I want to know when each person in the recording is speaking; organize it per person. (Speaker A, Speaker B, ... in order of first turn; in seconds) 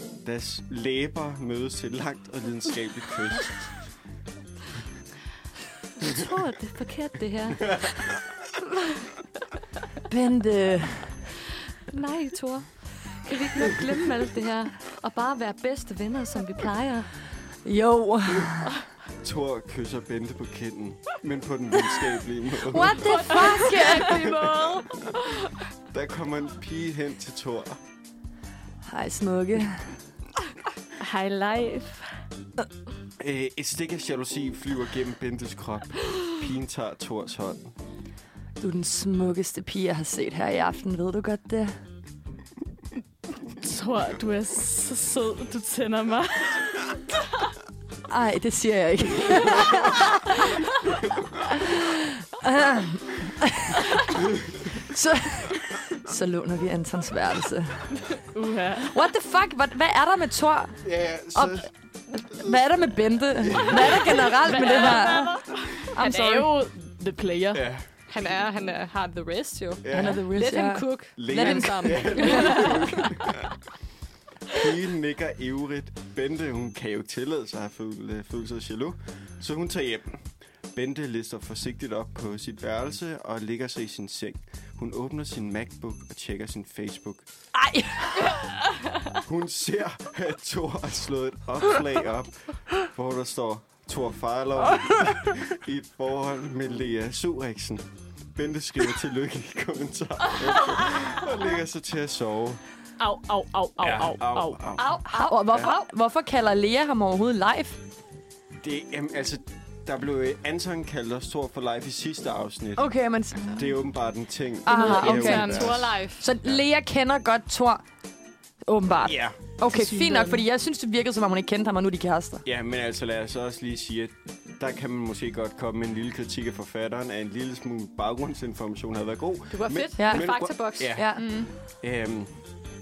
Speaker A: 0.2-3.7, 7.7-8.0, 19.2-23.3, 24.0-24.8, 25.9-27.8, 33.2-37.8, 60.8-62.7, 63.4-64.4, 67.5-67.9, 69.8-70.2, 71.2-73.5, 74.5-87.3, 89.2-102.6, 103.8-105.7, 108.6-116.6, 119.0-119.4, 122.5-132.4
Speaker B: 6.0-7.9, 11.9-17.1, 22.9-25.2, 64.7-65.5, 68.1-73.0, 104.8-105.9, 115.2-116.2, 129.5-131.0
Speaker C: 10.1-11.2, 17.6-18.7, 22.6-24.4, 28.8-30.0, 38.6-41.8, 48.1-50.6, 51.6-58.1, 58.8-60.8, 61.3-66.5, 69.9-73.0, 87.5-88.4, 105.1-107.8, 112.8-113.7, 114.7-117.8, 118.6-122.4, 130.0-131.3
Speaker D: 31.0-32.2, 43.5-46.8, 58.2-58.9, 64.3-67.7, 103.0-104.7, 114.7-115.9, 119.7-120.4, 131.2-131.5